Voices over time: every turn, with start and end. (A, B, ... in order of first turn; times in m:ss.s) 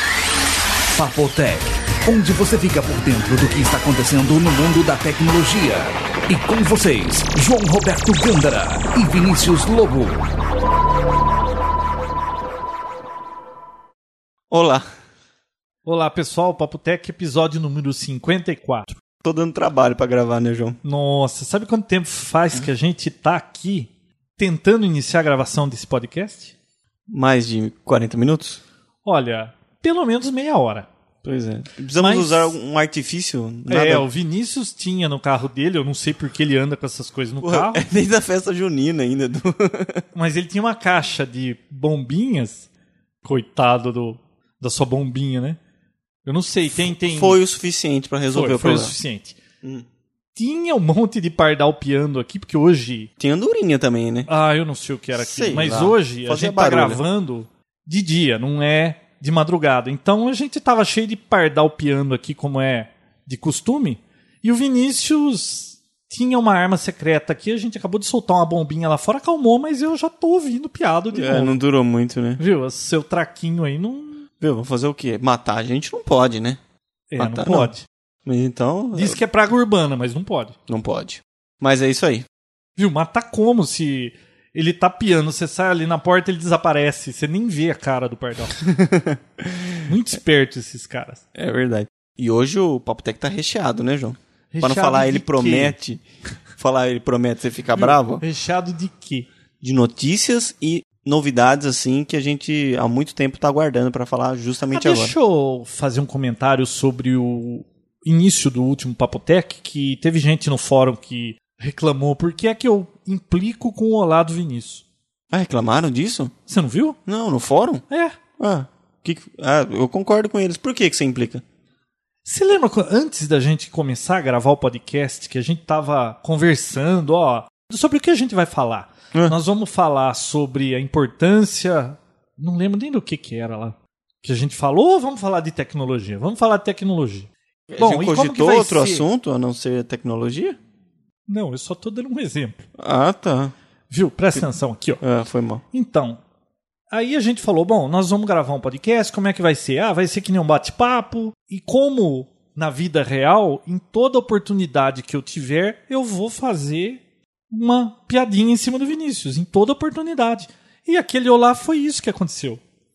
0:01.0-0:10.2 A
0:14.5-0:14.8 B
0:15.8-0:19.0 C
0:19.2-0:20.8 B
0:20.8-0:26.5 C
0:27.1-0:28.6 B
0:29.0-0:30.9 C
0:31.2-0:34.0 B
0:32.0-0:32.6 C
0:33.7-0:37.8 C
0:37.4-0:40.0 B
0:40.1-0:42.7 C
0:43.2-0:45.6 C
0:46.2-0:47.4 C
0:46.7-0:49.0 B
0:48.3-0:49.4 C
0:50.4-0:53.1 C
0:53.2-0:54.3 B
0:54.3-1:11.6 C
0:55.2-0:57.0 B
1:11.1-1:12.4 B
1:12.4-1:14.3 C
1:14.4-1:16.6 B
1:17.1-1:17.9 C
1:17.2-1:17.7 B
1:18.2-1:19.2 B
1:19.0-1:20.6 C
1:20.7-1:22.3 B
1:22.8-1:28.6 C
1:28.6-1:29.8 B
1:29.9-1:31.2 C
1:31.4-1:36.0 B
1:34.5-1:35.8 C
1:36.6-1:38.2 B
1:37.8-1:39.3 C
1:39.6-1:45.2 B
1:44.7-1:54.8 C
1:55.3-1:56.3 B
1:56.5-1:57.0 C
1:57.1-1:57.8 B
1:57.9-1:58.2 C
1:58.4-2:01.4 B
2:02.2-2:19.1 C
2:17.7-2:20.6 B
2:21.3-2:22.7 C
2:22.8-2:23.5 B
2:23.9-2:25.0 C
2:25.0-2:25.6 B
2:25.7-2:26.2 C
2:26.9-2:42.6 C